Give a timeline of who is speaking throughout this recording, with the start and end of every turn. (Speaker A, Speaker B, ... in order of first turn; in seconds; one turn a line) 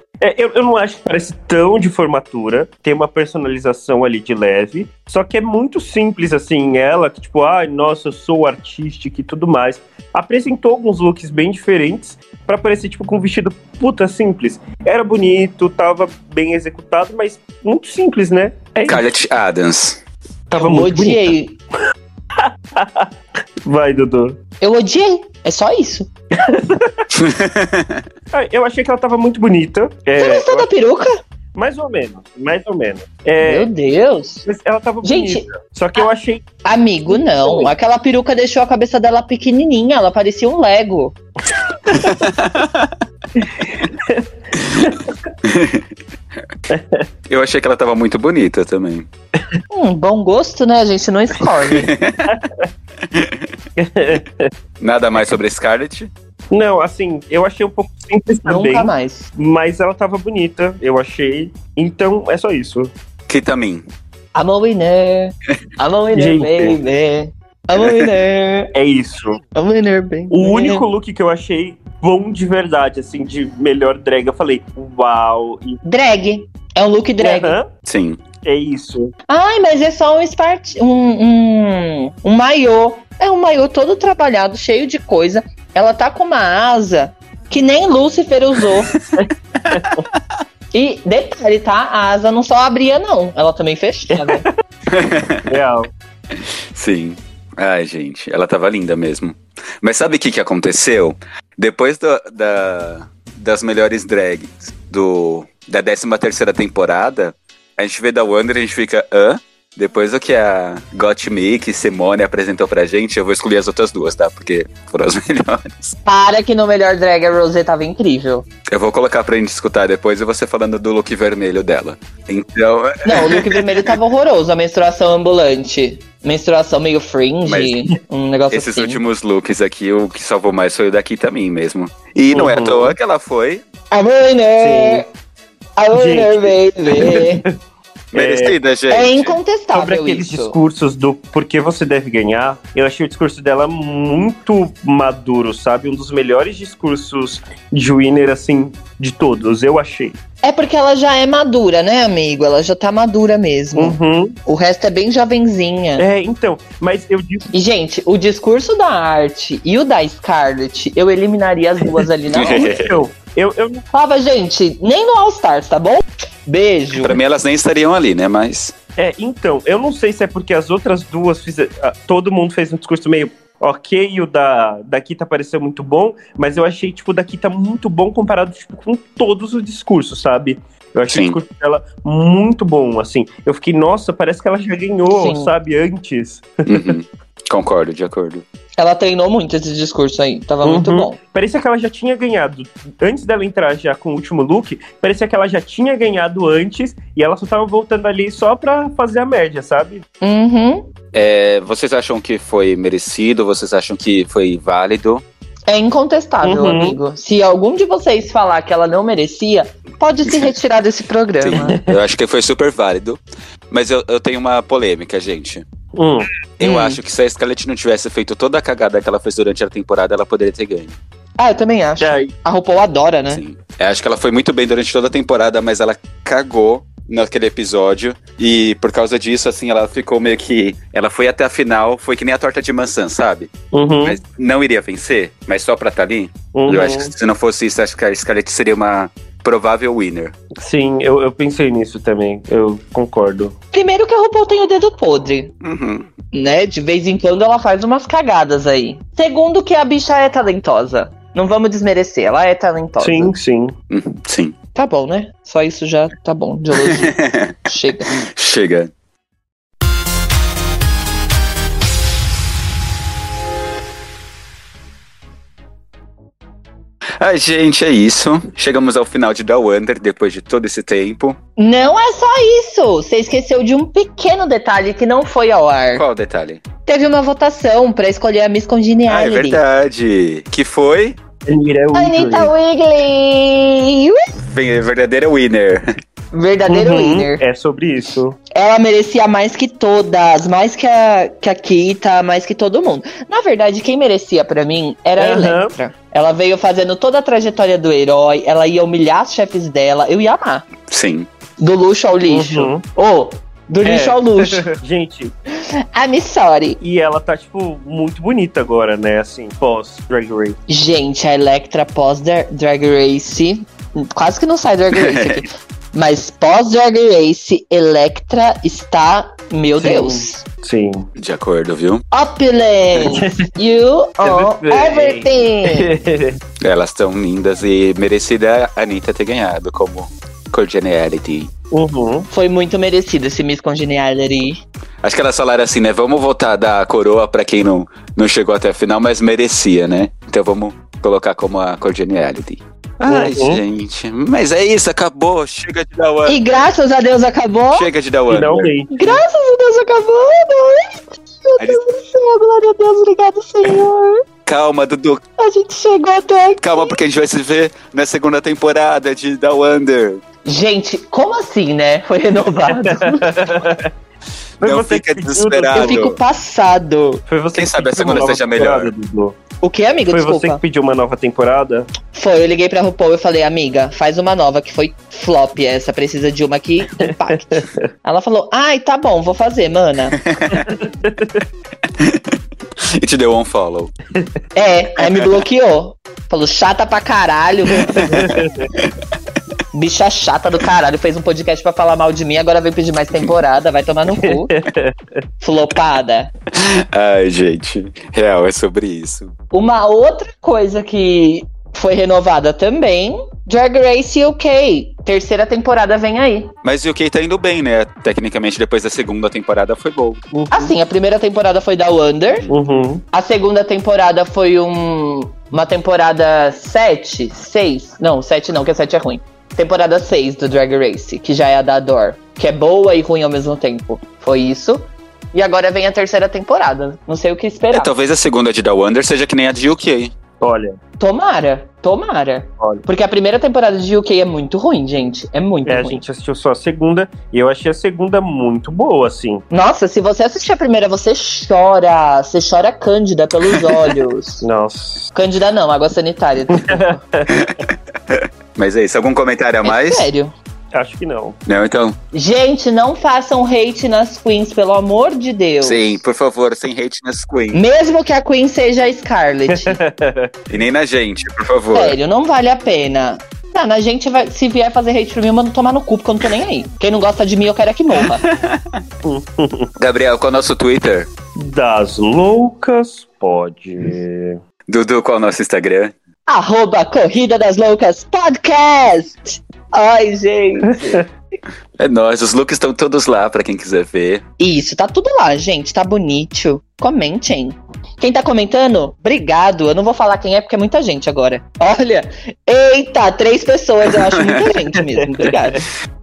Speaker A: 0.2-19.0
Speaker B: 18.9-20.0
Speaker C: 20.5-21.6
Speaker A: 20.5-21.3
Speaker A: 22.4-23.1
Speaker A: 23.6-24.4
Speaker C: 24.6-26.1
Speaker A: 26.4-26.9
Speaker B: 27.1-28.0
Speaker A: 28.3-30.7
Speaker C: 30.2-31.1
Speaker A: 31.5-33.7
Speaker C: 33.4-34.4
Speaker A: 34.4-36.4
Speaker C: 35.0-36.1
Speaker C: 36.6-41.1
Speaker A: 37.1-37.7
Speaker B: 41.9-42.9
Speaker A: 43.4-44.2
Speaker A: 44.8-45.1
Speaker B: 45.5-45.9
Speaker A: 46.7-47.0
Speaker B: 47.3-49.1
Speaker C: 49.7-51.9
Speaker B: 51.8-52.2
Speaker A: 52.3-52.7
Speaker B: 53.1-53.5
Speaker A: 53.8-54.5
Speaker B: 54.8-56.1
Speaker A: 56.5-62.9
Speaker C: 58.4-59.3
Speaker B: 63.3-63.9
Speaker C: 64.3-68.7
Speaker A: 66.1-66.8
Speaker A: 68.7-69.4
Speaker C: 69.5-70.8
Speaker A: 70.3-75.8
Speaker C: 75.8-77.5
Speaker A: 77.2-77.7
Speaker B: 77.8-78.2
Speaker A: 78.4-79.1
Speaker C: 79.3-88.9
Speaker A: 89.1-90.0
Speaker C: 90.7-94.4
Speaker A: 94.1-94.5
Speaker B: 94.9-95.5
Speaker A: 95.5-95.9
Speaker B: 96.3-116.0
Speaker C: 116.0-118.5
Speaker B: 118.7-123.9
Speaker C: 123.0-129.0
Speaker B: 127.5-127.8
Speaker B: 128.5-133.6
Speaker A: 132.3-132.9
Speaker C: 133.9-135.0
Speaker A: 134.6-135.0
Speaker C: 135.8-137.4
Speaker A: 135.9-137.4
Speaker A: 138.1-138.6
Speaker B: 138.1-139.4
Speaker C: 138.9-140.6
Speaker A: 139.7-150.2
Speaker C: 150.4-156.0
Speaker A: 153.8-154.3
Speaker A: 156.0-157.5
Speaker C: 157.5-162.7
Speaker B: 162.3-163.0
Speaker A: 162.5-163.8
Speaker C: 163.9-167.2
Speaker B: 166.9-168.7
Speaker A: 169.0-186.9
Speaker B: 181.1-181.4
Speaker C: 185.1-185.5
Speaker B: 186.7-188.4
Speaker C: 188.8-191.2
Speaker A: 190.6-200.0
Speaker C: 200.2-200.9
Speaker B: 201.1-205.2
Speaker C: 205.7-211.7
Speaker A: 206.4-207.0
Speaker B: 211.4-215.6
Speaker A: 211.5-212.0
Speaker A: 215.9-216.3
Speaker B: 216.6-220.9
Speaker C: 216.6-217.0
Speaker C: 221.4-223.4
Speaker A: 222.0-222.3
Speaker B: 223.3-233.5
Speaker A: 233.7-234.2
Speaker B: 234.0-240.3
Speaker A: 236.5-237.1
Speaker A: 240.6-243.5
Speaker C: 243.7-245.5
Speaker B: 245.6-246.1
Speaker C: 246.3-253.3
Speaker A: 253.0-253.7
Speaker B: 253.9-254.5
Speaker C: 254.7-258.2
Speaker B: 256.7-257.5
Speaker B: 258.3-258.9
Speaker B: 267.2-271.4
Speaker C: 271.6-276.0
Speaker B: 275.9-276.6
Speaker C: 276.9-279.6
Speaker B: 279.1-281.2
Speaker A: 281.4-282.5
Speaker C: 281.9-284.1
Speaker B: 284.4-285.8
Speaker C: 286.3-287.4
Speaker A: 286.7-288.4
Speaker C: 288.5-300.6
Speaker A: 295.2-295.7
Speaker B: 300.9-301.3
Speaker C: 301.6-304.6
Speaker A: 302.3-302.8
Speaker A: 303.8-305.3
Speaker C: 305.9-306.8
Speaker A: 306.8-310.6
Speaker C: 310.7-320.4
Speaker B: 314.9-315.4
Speaker A: 319.8-321.1
Speaker B: 321.2-322.0
Speaker C: 322.1-325.9
Speaker A: 323.0-323.5
Speaker A: 324.2-326.4
Speaker B: 326.6-331.5
Speaker A: 331.7-332.3
Speaker C: 332.3-334.6
Speaker B: 335.0-346.5
Speaker A: 343.1-343.6
Speaker C: 346.2-347.9
Speaker B: 347.7-348.7
Speaker A: 348.3-349.2
Speaker C: 348.9-354.2
Speaker B: 354.4-355.2
Speaker C: 355.4-357.0
Speaker B: 356.6-360.2
Speaker C: 360.4-363.3
Speaker A: 362.7-363.9
Speaker A: 364.6-366.0
Speaker B: 364.6-366.2
Speaker C: 365.7-367.2
Speaker A: 367.3-369.4
Speaker B: 367.5-368.9
Speaker C: 369.6-370.6
Speaker A: 370.1-371.9
Speaker C: 372.1-380.2
Speaker A: 377.4-377.8
Speaker B: 380.3-380.6
Speaker A: 380.5-381.4
Speaker B: 382.0-382.4
Speaker B: 383.0-383.9
Speaker C: 384.5-388.1
Speaker B: 385.0-385.3
Speaker A: 387.9-388.7
Speaker C: 389.7-394.5
Speaker A: 394.2-394.9
Speaker C: 395.4-396.3
Speaker B: 396.6-399.3
Speaker C: 399.5-406.5
Speaker B: 406.6-410.2
Speaker A: 410.3-410.7
Speaker C: 410.5-412.5
Speaker A: 412.5-413.0
Speaker C: 413.1-427.9
Speaker B: 427.7-430.1
Speaker A: 430.4-430.8
Speaker C: 431.0-436.0
Speaker A: 432.6-432.8
Speaker A: 435.6-439.4
Speaker C: 439.5-444.4
Speaker A: 444.4-445.1
Speaker C: 445.1-446.9
Speaker A: 446.6-447.4
Speaker B: 448.1-450.1
Speaker C: 449.6-450.3
Speaker A: 450.7-451.4
Speaker B: 451.4-451.9
Speaker C: 452.1-456.0
Speaker B: 455.6-457.6
Speaker C: 457.5-459.8
Speaker A: 459.5-460.3
Speaker B: 460.5-462.0
Speaker C: 461.7-468.2
Speaker B: 467.9-468.8
Speaker A: 469.0-469.7
Speaker B: 469.8-471.1
Speaker A: 471.3-474.4
Speaker B: 474.7-475.9
Speaker C: 476.3-481.0
Speaker A: 480.6-481.0
Speaker B: 481.8-484.2
Speaker C: 484.4-495.6